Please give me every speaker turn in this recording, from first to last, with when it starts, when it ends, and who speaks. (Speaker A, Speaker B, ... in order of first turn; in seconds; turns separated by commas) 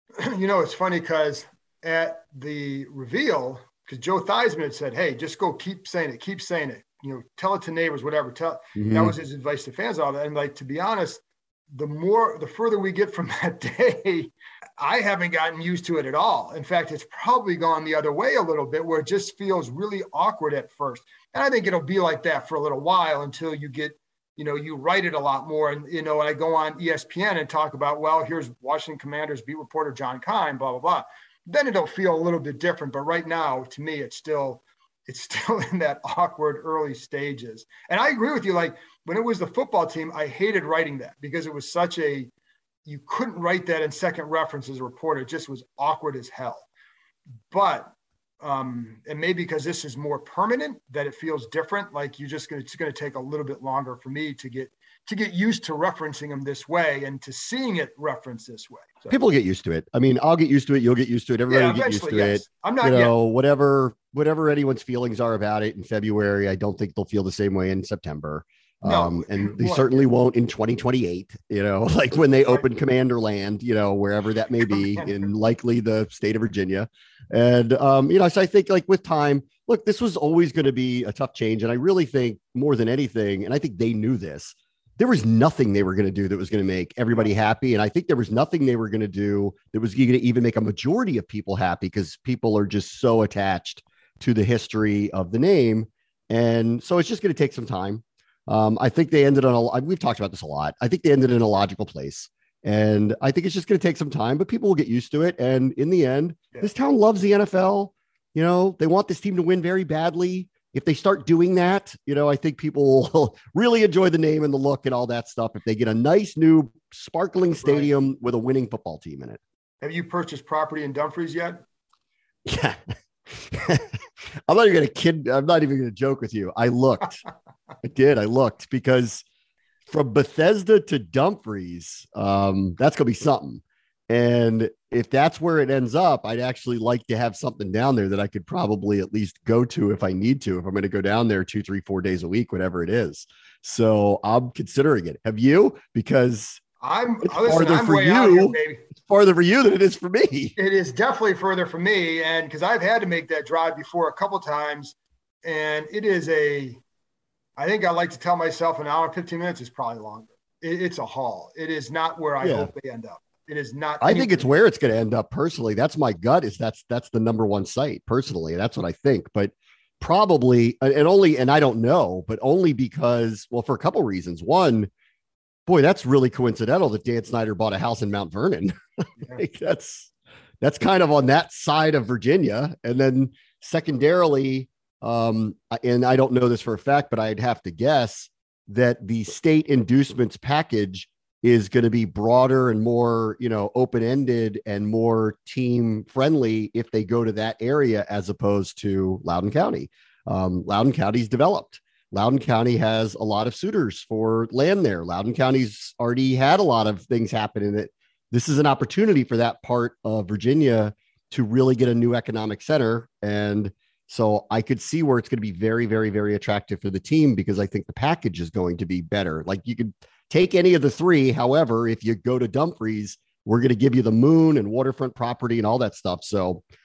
Speaker A: 0.1-42.3, Speaker B: 8.8-9.2, Speaker A: 42.9-46.7, Speaker A: 47.5-59.1, Speaker B: 59.1-119.4, Speaker A: 61.5-63.1, Speaker A: 68.8-70.1, Speaker A: 74.7-75.2, Speaker A: 117.6-117.9, Speaker A: 119.8-121.6, Speaker B: 122.5-127.2, Speaker B: 127.8-129.2, Speaker B: 129.9-146.6, Speaker A: 146.8-148.9, Speaker B: 147.2-150.5, Speaker A: 150.6-156.8, Speaker A: 157.6-164.5, Speaker B: 162.4-162.7, Speaker B: 164.0-174.9, Speaker B: 175.7-226.6